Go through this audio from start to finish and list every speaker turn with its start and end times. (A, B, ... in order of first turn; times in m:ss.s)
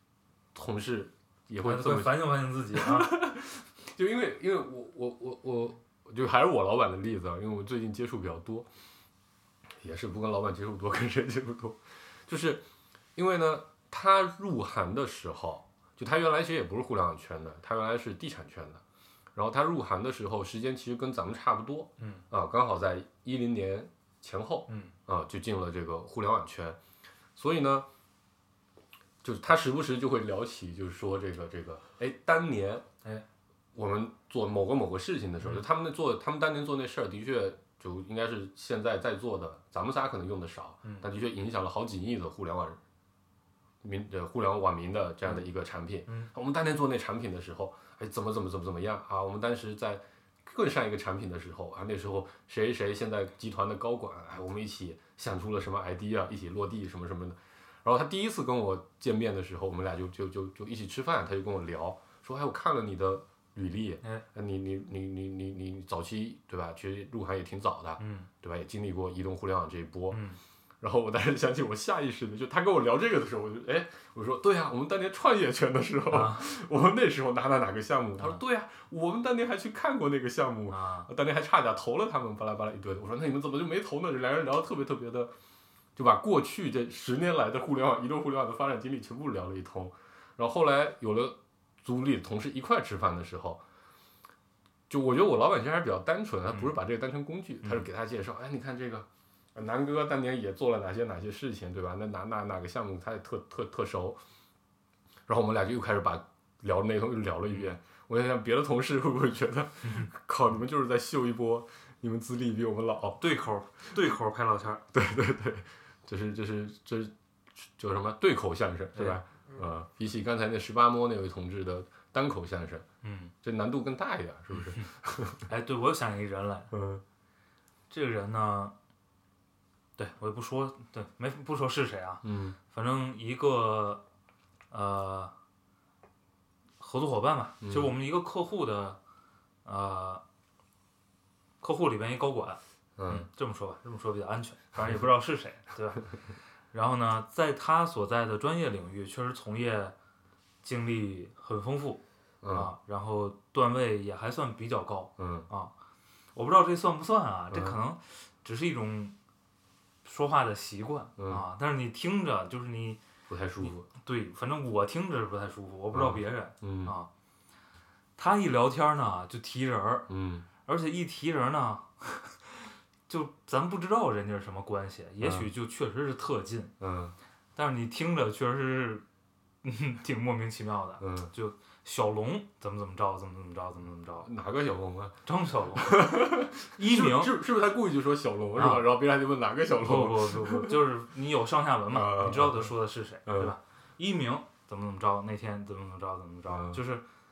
0:00.5-0:08.7 A
0:01.6-0:03.2 B
0:09.8-0:12.6 A
0:13.2-0:18.8 A
0:19.4-0:26.8 A
0:22.0-0:22.2 B
0:24.7-0:24.9 B
0:27.4-0:27.9 A
0:29.2-0:32.8 A
0:33.8-0:42.8 A
0:43.8-1:10.2 A
1:08.0-1:08.3 B
1:10.1-1:10.4 B
1:10.8-1:25.3 A
1:16.1-1:16.5 B
1:20.7-1:21.1 B
1:26.0-1:33.6 A
1:34.9-1:44.2 A
1:37.6-1:37.9 B
1:45.3-1:53.2 A
1:49.8-1:50.1 B
1:53.2-1:54.8 B
1:54.9-2:02.8 A
1:59.0-1:59.2 B
2:03.0-2:03.3 B
2:03.4-2:05.5 A
2:04.5-2:04.9 B
2:05.5-2:06.7 B
2:06.7-2:07.0 A
2:07.9-2:08.8 B
2:10.0-2:14.0 B
2:12.2-2:12.6 A
2:14.7-2:15.3 B
2:16.8-2:19.0 B
2:17.6-2:18.0 A
2:19.6-2:20.2 B
2:21.6-2:26.1 B
2:23.0-2:23.3 A
2:24.8-2:25.1 A
2:26.7-2:29.9 B
2:30.6-2:35.7 B
2:32.4-2:32.7 A
2:35.2-2:35.5 A
2:36.3-2:39.1 B
2:37.5-2:37.8 A
2:40.0-2:43.0 B
2:41.2-2:41.4 A
2:43.3-2:43.8 A
2:43.6-2:47.1 B
2:45.9-2:47.0 A
2:48.2-2:50.1 B
2:50.1-2:50.5 A
2:50.6-2:56.7 B
2:55.2-2:55.5 A
2:56.8-2:57.2 A
2:57.6-2:59.0 B
2:59.6-3:04.3 B
3:01.0-3:01.3 A
3:04.2-3:05.2 A
3:05.2-3:06.1 B
3:05.8-3:10.8 A
3:06.7-3:07.4 B
3:08.6-3:08.9 B
3:09.8-3:17.0 B
3:11.9-3:12.7 A
3:13.2-3:13.6 A
3:16.5-3:16.8 A